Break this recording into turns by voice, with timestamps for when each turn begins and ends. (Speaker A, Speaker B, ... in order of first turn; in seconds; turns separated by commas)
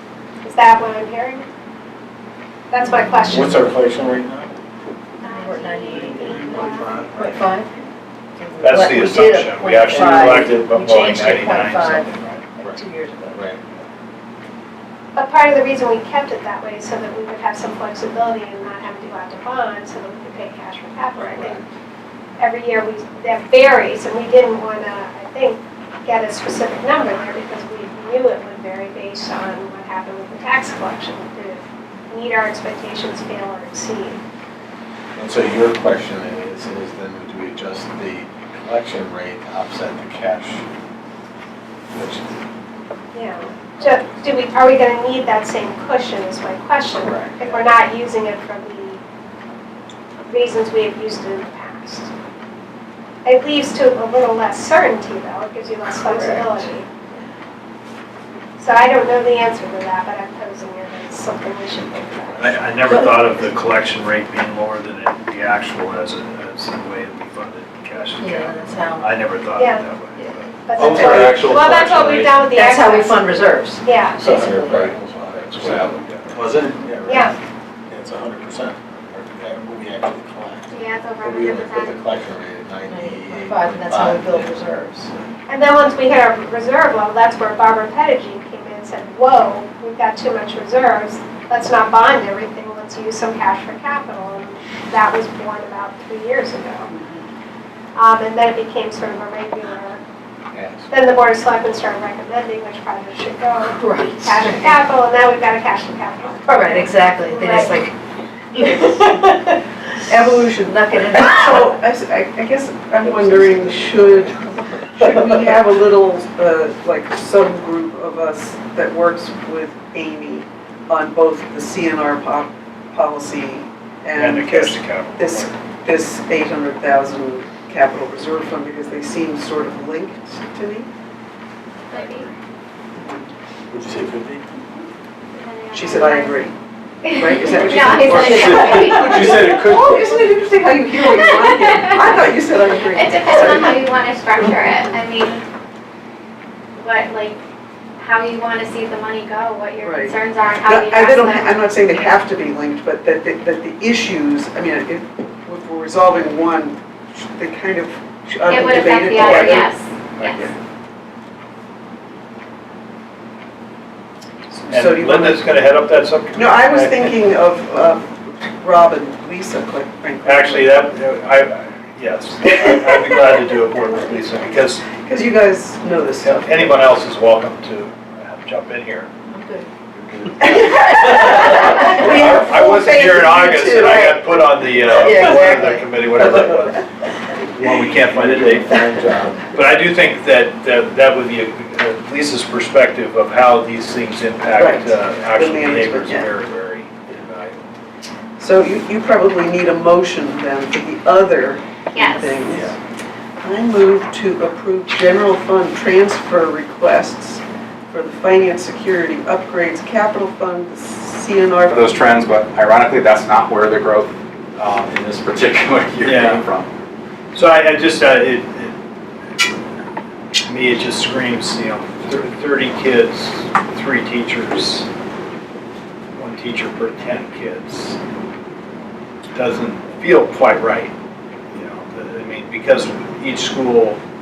Speaker A: 0.4-1.5, Speaker A: 2.7-3.6, Speaker B: 2.9-3.3, Speaker C: 3.3-4.5, Speaker B: 5.2-7.7, Speaker A: 5.2-7.3, Speaker C: 6.0-7.2, Speaker B: 8.4-13.5, Speaker D: 8.6-12.4, Speaker C: 12.6-13.6, Speaker A: 15.2-21.6, Speaker C: 21.2-21.6, Speaker A: 22.4-34.2, Speaker C: 35.2-40.6, Speaker C: 41.9-42.4, Speaker A: 43.1-49.0, Speaker C: 43.8-44.1, Speaker C: 47.0-47.7, Speaker A: 50.3-52.1, Speaker A: 53.2-56.9, Speaker B: 55.9-56.7, Speaker A: 58.6-62.6, Speaker D: 62.4-70.7, Speaker B: 62.9-63.2, Speaker B: 68.2-69.2, Speaker A: 69.6-69.8, Speaker A: 70.7-73.2, Speaker C: 70.8-71.7, Speaker E: 70.8-72.4, Speaker B: 72.4-74.9, Speaker A: 73.8-74.2, Speaker C: 74.2-77.4, Speaker D: 75.3-76.3, Speaker A: 77.1-77.3, Speaker C: 77.9-84.5, Speaker F: 80.7-82.0, Speaker B: 82.9-85.1, Speaker A: 85.5-96.9, Speaker G: 96.9-97.2, Speaker A: 98.0-100.0, Speaker C: 100.5-100.9, Speaker A: 100.9-107.8, Speaker B: 103.7-104.9, Speaker B: 106.5-108.0, Speaker B: 108.5-109.4, Speaker B: 110.1-111.7, Speaker G: 110.1-130.9, Speaker C: 113.0-115.1, Speaker D: 124.1-125.5, Speaker F: 131.9-132.3, Speaker G: 133.0-133.3, Speaker C: 133.7-134.4, Speaker F: 135.4-136.3, Speaker G: 135.7-136.5, Speaker B: 135.9-136.5, Speaker G: 137.1-143.9, Speaker F: 137.2-139.4, Speaker B: 137.6-139.1, Speaker C: 138.3-140.0, Speaker F: 143.0-145.3, Speaker B: 143.8-144.1, Speaker F: 146.8-147.4, Speaker F: 148.0-151.4, Speaker B: 148.3-148.9, Speaker G: 149.8-160.5, Speaker B: 158.5-159.8, Speaker F: 158.5-159.7, Speaker G: 164.5-165.7, Speaker D: 164.7-167.2, Speaker G: 166.3-170.8, Speaker D: 170.2-174.9, Speaker G: 174.9-176.8, Speaker D: 176.2-179.1, Speaker B: 179.3-179.7, Speaker C: 179.9-180.8, Speaker D: 180.4-186.9, Speaker G: 180.5-184.2, Speaker B: 181.4-182.0, Speaker G: 185.0-186.8, Speaker B: 185.1-185.8, Speaker D: 187.5-197.6, Speaker C: 187.6-189.6, Speaker G: 194.6-196.3, Speaker G: 198.4-202.8, Speaker F: 202.0-202.3, Speaker G: 203.4-211.8, Speaker E: 211.7-216.7, Speaker D: 216.0-216.4, Speaker D: 217.3-218.8, Speaker D: 220.4-224.9, Speaker D: 226.2-228.0, Speaker D: 229.3-230.9, Speaker D: 231.5-234.0